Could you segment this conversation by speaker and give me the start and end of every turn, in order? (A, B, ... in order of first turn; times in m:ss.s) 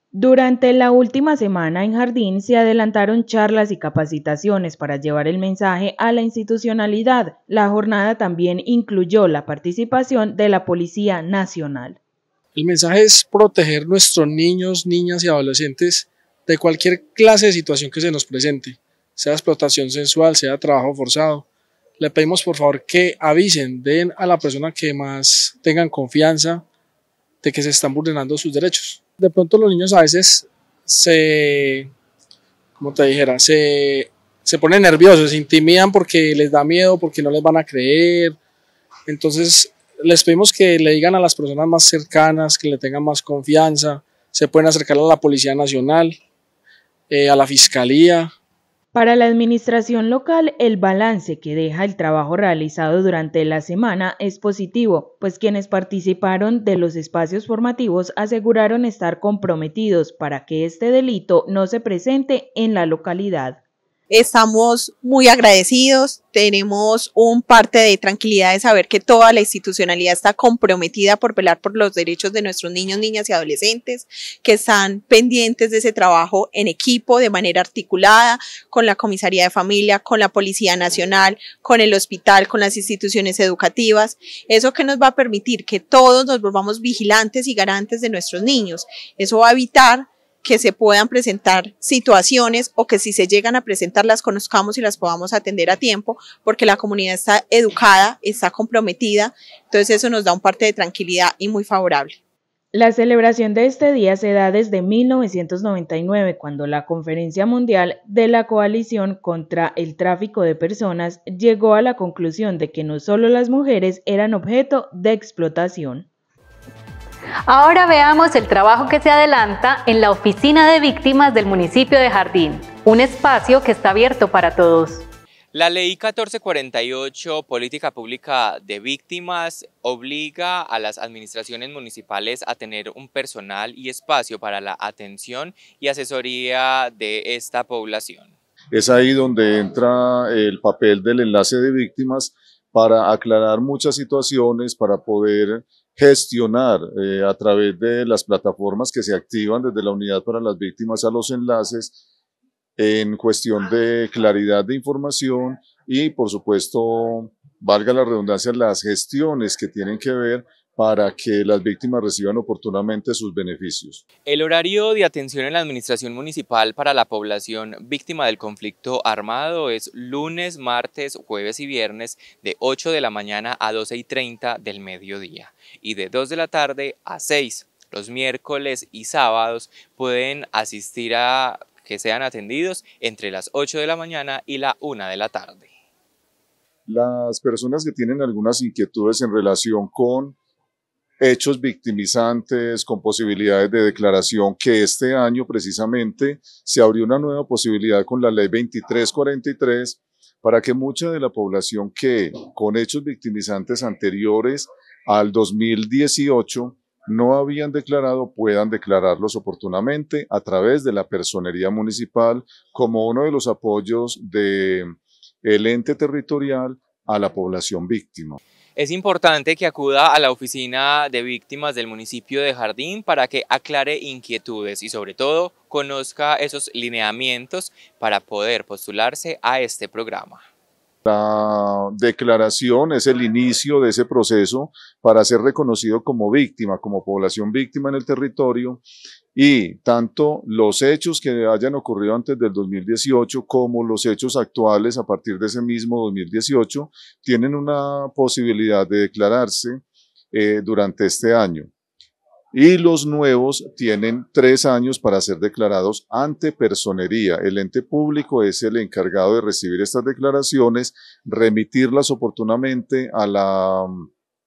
0:00.1-0:12.0 A
0:12.6-0:21.4 B
0:22.0-0:26.6 B
0:27.4-0:31.9 B
0:32.8-0:38.4 B
0:39.1-0:46.2 B
0:47.1-0:48.3 B
0:48.9-1:03.6 A
1:04.1-1:42.2 C
1:42.7-1:56.1 A
1:57.5-2:05.0 D
2:05.5-2:18.3 E
2:18.7-2:32.0 F
2:32.8-2:44.0 F
2:44.3-3:05.7 E
3:06.9-3:10.4 F
3:11.2-3:38.4 F
3:38.8-3:50.4 E
3:51.1-3:58.8 F
3:59.4-4:11.7 F
4:12.5-4:24.1 F